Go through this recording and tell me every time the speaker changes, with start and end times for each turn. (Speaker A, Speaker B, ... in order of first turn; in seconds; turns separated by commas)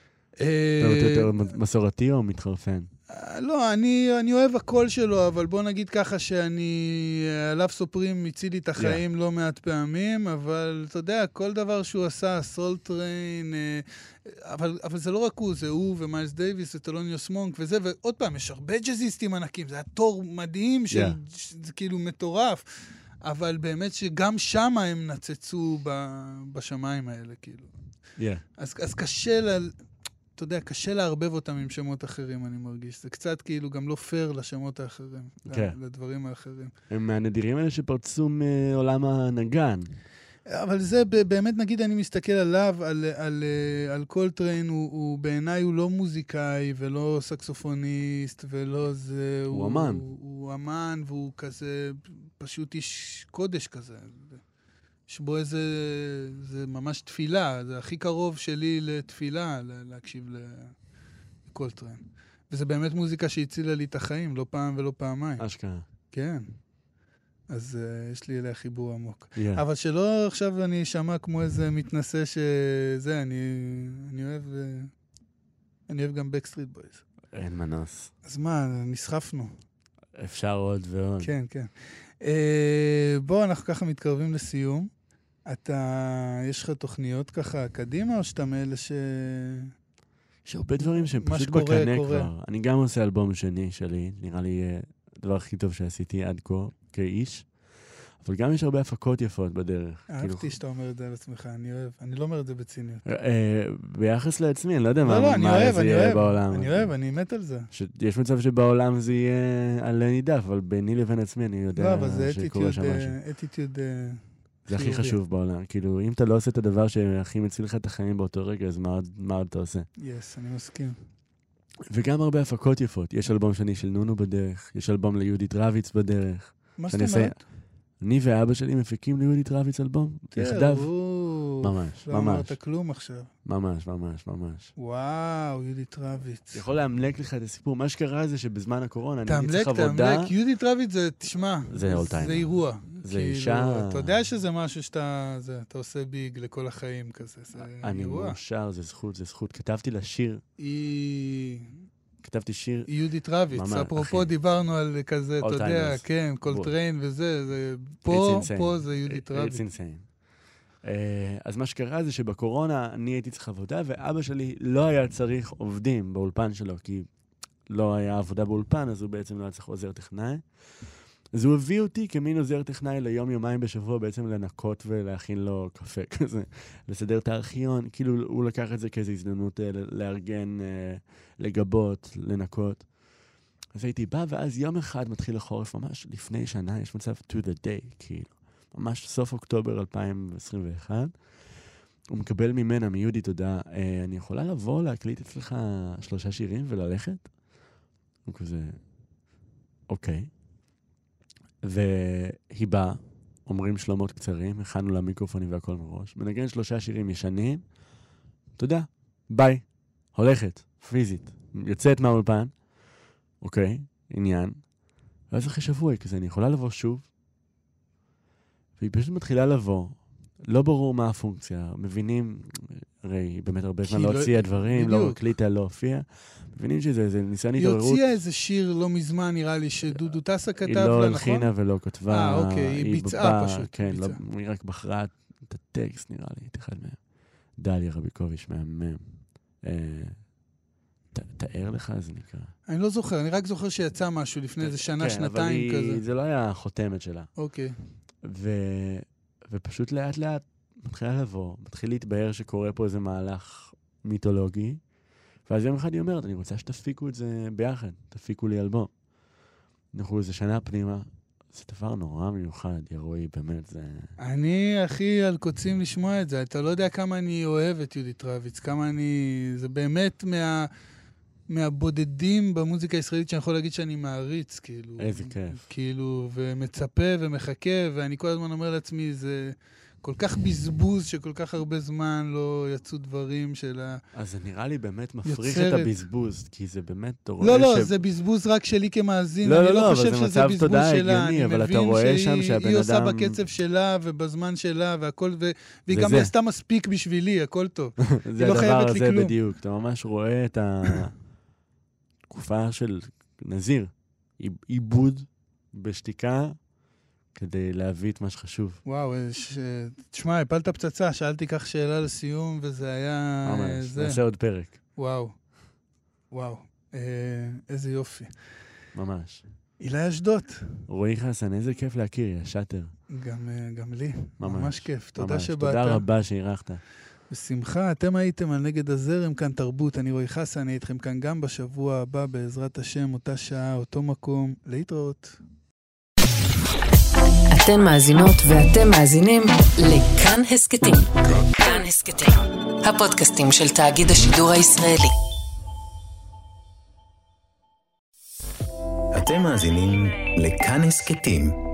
Speaker A: 0.4-1.4, Speaker B: 0.8-2.9, Speaker A: 3.1-27.7, Speaker B: 8.8-9.0, Speaker B: 20.9-21.2, Speaker B: 28.2-28.4, Speaker A: 28.6-29.7, Speaker A: 30.4-36.7, Speaker B: 35.5-35.8, Speaker B: 36.9-39.9, Speaker A: 40.5-54.4, Speaker B: 49.5-50.0, Speaker A: 55.1-60.8, Speaker A: 61.5-65.5, Speaker B: 65.4-65.8, Speaker A: 66.1-66.5, Speaker A: 67.5-74.9, Speaker B: 69.4-69.6, Speaker A: 75.9-77.0, Speaker B: 77.3-78.1, Speaker A: 78.2-79.5, Speaker B: 80.2-81.3, Speaker A: 81.2-81.7, Speaker A: 82.2-84.9, Speaker A: 85.5-89.7, Speaker B: 90.5-97.5, Speaker A: 90.8-92.3, Speaker B: 98.2-100.5, Speaker A: 100.1-103.0, Speaker B: 103.0-106.9, Speaker A: 105.0-107.7, Speaker B: 107.7-113.2, Speaker A: 111.8-115.2, Speaker B: 114.7-119.9, Speaker A: 120.0-121.0, Speaker B: 121.9-127.4, Speaker A: 126.8-127.4, Speaker B: 128.0-130.9, Speaker A: 130.3-133.3, Speaker B: 131.6-132.6, Speaker B: 133.4-134.7, Speaker A: 134.8-136.6, Speaker B: 136.5-140.3, Speaker A: 139.3-148.4, Speaker B: 141.7-144.1, Speaker B: 147.6-150.4, Speaker A: 150.6-151.7, Speaker B: 152.2-152.9, Speaker A: 152.9-159.6, Speaker B: 153.5-154.3, Speaker B: 155.4-156.7, Speaker B: 158.1-160.1, Speaker B: 160.8-167.1, Speaker B: 167.7-170.4, Speaker B: 171.3-182.8, Speaker B: 183.7-191.1, Speaker B: 192.1-197.3, Speaker B: 198.2-198.8, Speaker B: 199.9-200.3, Speaker B: 201.6-207.6, Speaker B: 208.6-212.5, Speaker B: 213.4-214.6, Speaker B: 215.3-217.1, Speaker B: 218.8-228.0, Speaker A: 223.8-225.2, Speaker A: 227.6-231.5, Speaker B: 229.9-237.0, Speaker A: 232.1-234.2, Speaker B: 237.6-239.0, Speaker B: 239.6-240.2, Speaker B: 241.1-242.5, Speaker A: 242.7-246.0, Speaker B: 244.6-247.3, Speaker A: 247.4-247.8, Speaker B: 248.2-254.8, Speaker B: 255.5-258.9, Speaker B: 259.9-264.1, Speaker A: 264.2-270.7, Speaker A: 271.5-284.0, Speaker B: 275.0-275.6, Speaker B: 284.1-287.9, Speaker A: 285.2-286.0, Speaker A: 287.4-299.3, Speaker B: 289.4-293.4, Speaker B: 295.9-296.3, Speaker B: 298.1-301.1, Speaker B: 302.3-306.6, Speaker B: 307.4-308.8, Speaker A: 308.9-314.2, Speaker B: 313.4-314.8, Speaker A: 315.0-315.4, Speaker A: 316.3-318.3, Speaker B: 318.9-319.4, Speaker A: 319.8-320.8, Speaker B: 320.9-322.9, Speaker A: 323.1-326.0, Speaker B: 324.4-326.8, Speaker A: 327.3-335.4, Speaker C: 337.5-345.1, Speaker D: 349.1-351.6